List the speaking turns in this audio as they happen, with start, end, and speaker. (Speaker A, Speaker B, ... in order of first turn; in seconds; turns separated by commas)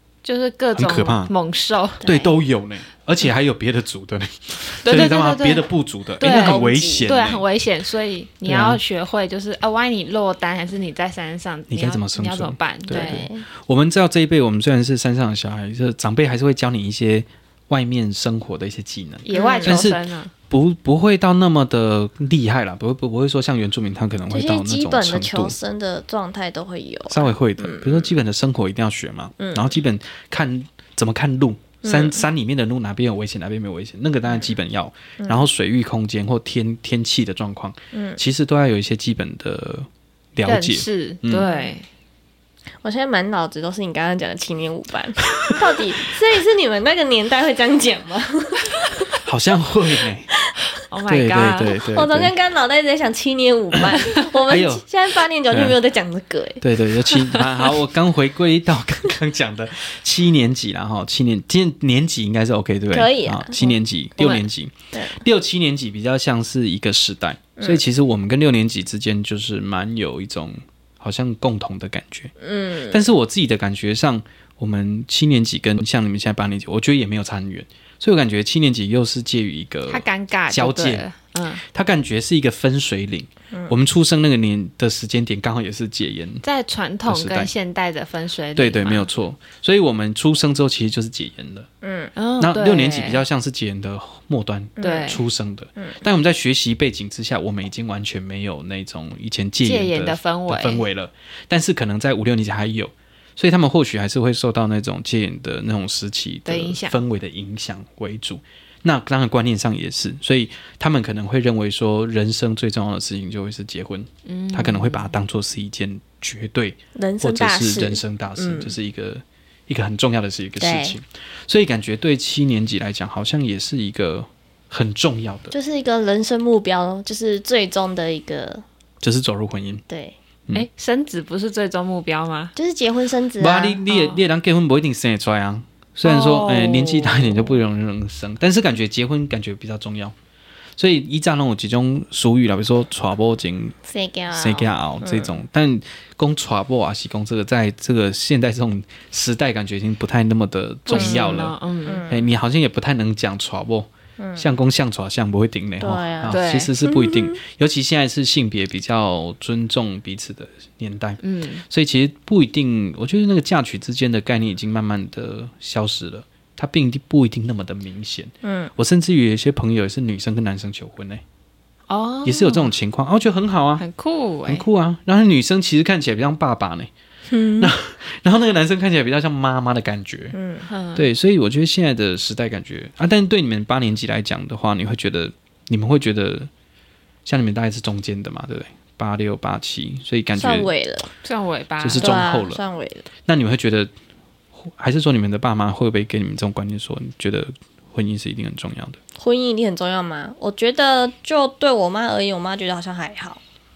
Speaker A: 0.2-2.0, Speaker B: 0.7-1.3, Speaker C: 2.0-2.3, Speaker B: 2.0-7.5, Speaker A: 4.8-5.7, Speaker A: 6.2-13.2, Speaker C: 6.2-7.1, Speaker B: 8.4-8.8, Speaker B: 11.7-25.5, Speaker C: 12.9-13.4, Speaker A: 19.2-20.3, Speaker C: 19.3-19.9, Speaker C: 24.3-28.1, Speaker B: 27.1-41.5, Speaker C: 29.4-29.8, Speaker C: 31.8-32.2, Speaker C: 35.2-35.5, Speaker C: 37.9-38.2, Speaker A: 40.4-41.9, Speaker C: 41.5-41.7, Speaker C: 42.8-49.1, Speaker B: 49.2-50.3, Speaker A: 50.9-51.8, Speaker B: 51.1-52.3, Speaker C: 51.9-56.6, Speaker B: 53.7-54.9, Speaker B: 55.5-55.8, Speaker B: 56.6-72.3, Speaker C: 62.9-63.8, Speaker A: 64.2-64.5, Speaker C: 64.9-65.2, Speaker C: 67.6-67.8, Speaker C: 72.4-73.0, Speaker B: 72.9-81.0, Speaker A: 79.9-81.6, Speaker B: 81.7-86.4, Speaker A: 86.4-89.1, Speaker B: 87.0-87.5, Speaker B: 88.5-91.7, Speaker C: 91.8-92.1, Speaker A: 92.2-93.2, Speaker B: 92.4-125.5, Speaker C: 94.8-95.2, Speaker A: 94.8-95.2, Speaker A: 99.6-100.8, Speaker A: 106.5-107.0, Speaker A: 114.2-115.1, Speaker C: 116.9-118.7, Speaker C: 120.6-121.0, Speaker C: 125.5-128.6, Speaker B: 129.0-129.8, Speaker C: 129.9-130.2, Speaker A: 130.5-132.5, Speaker C: 132.6-133.8, Speaker B: 133.4-140.1, Speaker A: 133.9-134.2, Speaker A: 136.0-137.5, Speaker B: 140.8-143.8, Speaker C: 143.8-145.3, Speaker B: 144.3-151.6, Speaker A: 150.9-152.1, Speaker C: 150.9-152.3, Speaker B: 152.1-171.2, Speaker C: 154.2-154.5, Speaker C: 155.8-157.4, Speaker A: 156.3-156.7, Speaker A: 161.2-161.6, Speaker C: 168.4-168.7, Speaker A: 171.9-172.7, Speaker B: 172.2-173.8, Speaker A: 173.8-174.6, Speaker B: 174.5-176.9, Speaker C: 177.3-177.7, Speaker B: 177.6-180.4, Speaker C: 180.3-180.7, Speaker A: 180.7-181.1, Speaker B: 180.9-186.5, Speaker B: 187.2-190.7, Speaker C: 190.3-191.1, Speaker A: 191.2-192.2, Speaker B: 191.8-192.6, Speaker C: 192.0-193.1, Speaker B: 193.2-193.9, Speaker B: 194.6-199.0, Speaker C: 199.2-203.4